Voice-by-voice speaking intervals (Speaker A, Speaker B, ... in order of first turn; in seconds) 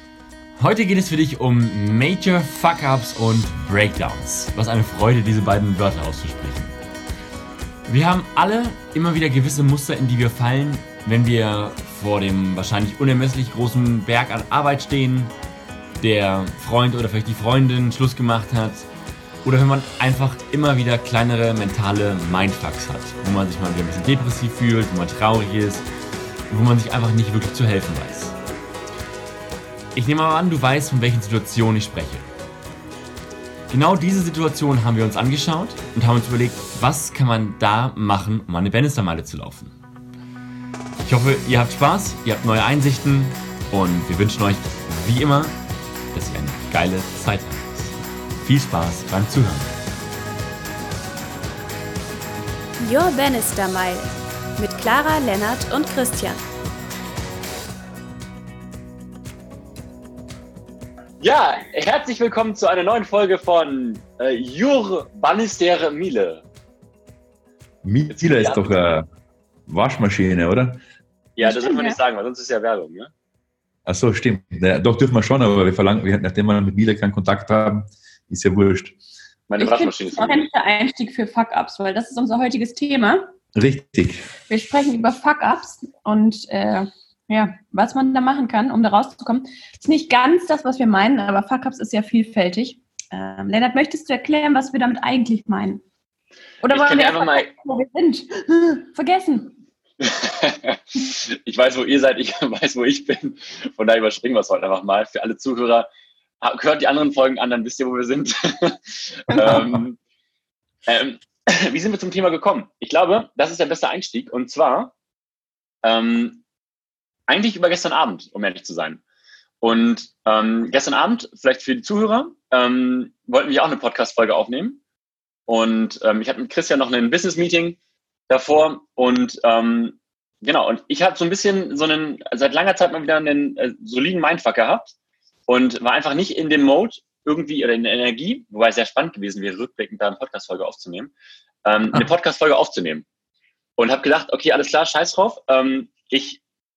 Speaker A: 0.6-6.8, 7.9-15.3, 16.0-18.9, 19.4-25.9, 26.5-28.4, 29.9-32.3, 33.7-39.8, 41.0-45.6, 46.1-49.7
Speaker B: 52.8-56.4
Speaker C: 61.2-66.4, 68.1-68.8, 71.4-73.1, 79.5-80.5, 96.7-97.5, 100.0-105.9, 106.4-110.0, 110.9-114.9, 115.8-116.4, 117.3-119.0, 119.6-124.8, 125.5-127.8, 128.3-134.9, 135.5-141.1, 141.7-143.1, 143.8-146.4
Speaker D: 67.8-69.1, 69.7-70.8, 73.9-79.0, 83.5-84.3, 109.4-109.8
Speaker E: 71.4-72.0, 79.6-83.3, 84.5-95.8, 96.6-99.5, 109.3-109.6